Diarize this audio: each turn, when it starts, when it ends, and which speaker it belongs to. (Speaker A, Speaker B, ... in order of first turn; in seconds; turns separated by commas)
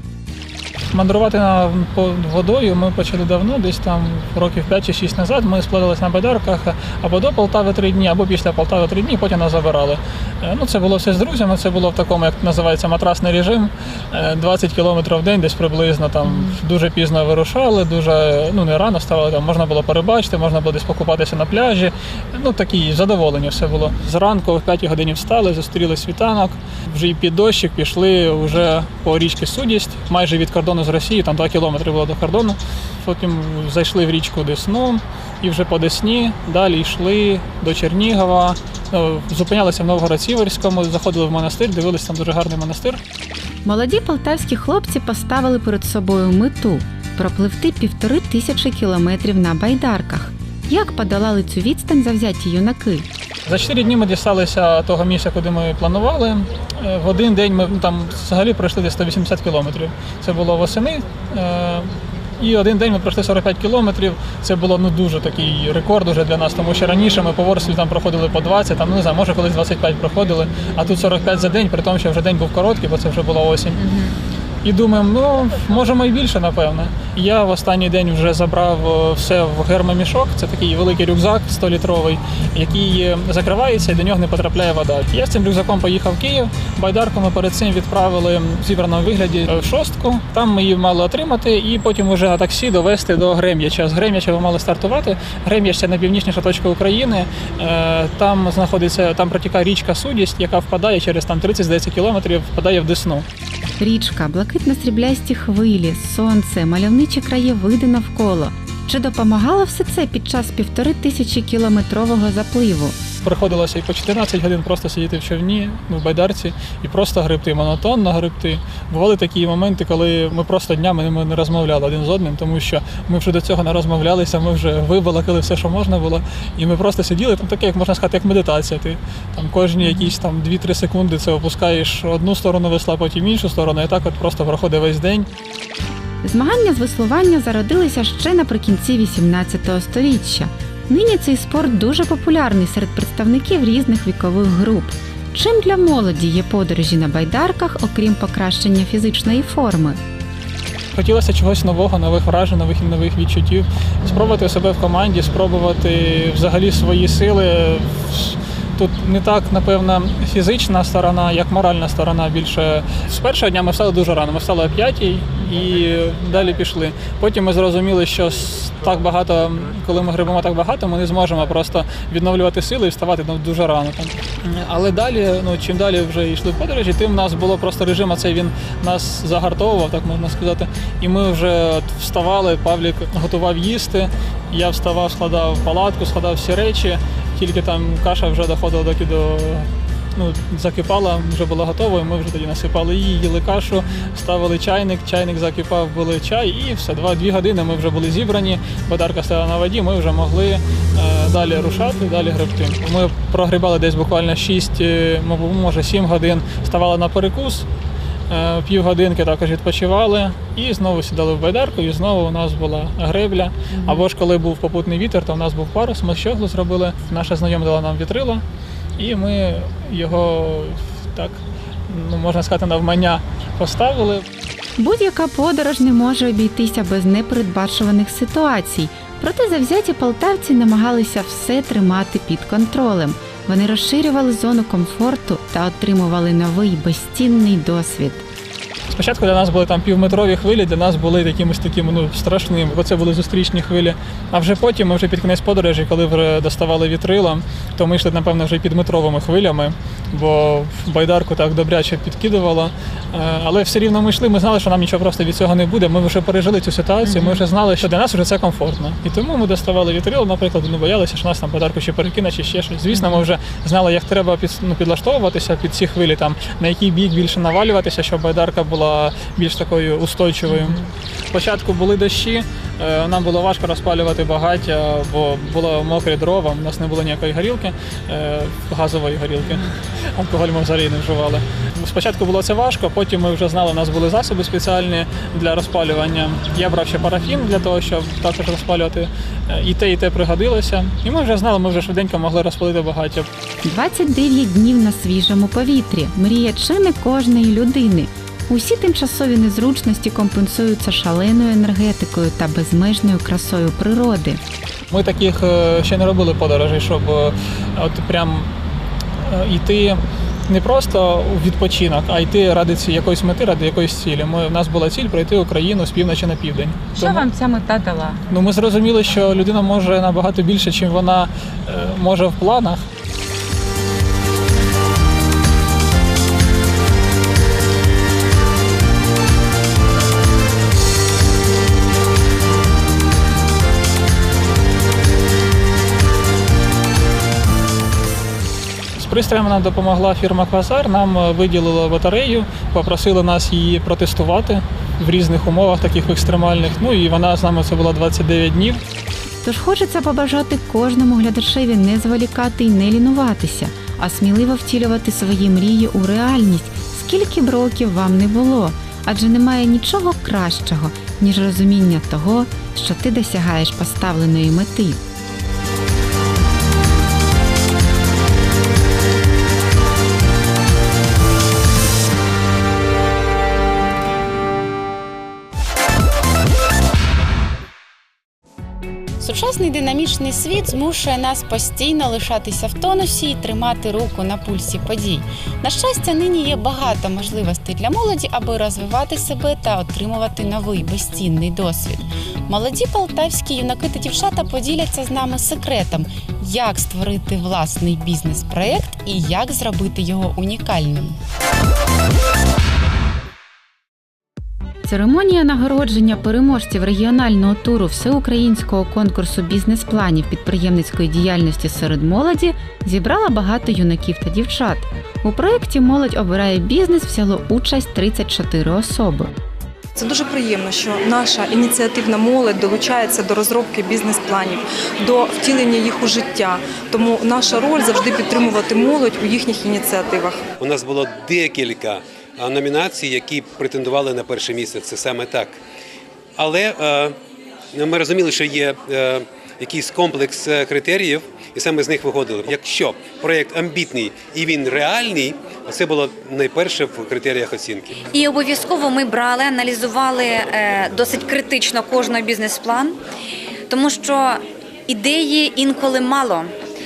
Speaker A: 0.9-43.0, Speaker B: 43.6-53.1, Speaker A: 53.5-73.9, Speaker A: 74.6-103.2, Speaker B: 103.8-113.0, Speaker A: 113.2-135.3, Speaker B: 136.2-150.0, Speaker A: 150.9-207.7, Speaker A: 208.3-218.4, Speaker A: 219.0-224.2, Speaker B: 224.8-238.2, Speaker A: 238.9-270.8, Speaker B: 257.1-257.4, Speaker A: 271.3-293.3, Speaker B: 293.6-304.4, Speaker A: 304.9-308.5, Speaker A: 309.2-317.3, Speaker B: 316.9-318.2, Speaker A: 318.3-322.8, Speaker A: 339.0-348.8, Speaker B: 349.4-365.0, Speaker B: 379.2-401.2, Speaker B: 404.8-419.3, Speaker C: 419.9-430.4, Speaker D: 430.6-435.6, Speaker D: 436.4-437.1, Speaker D: 437.7-447.9, Speaker E: 448.1-453.0, Speaker E: 453.7-456.5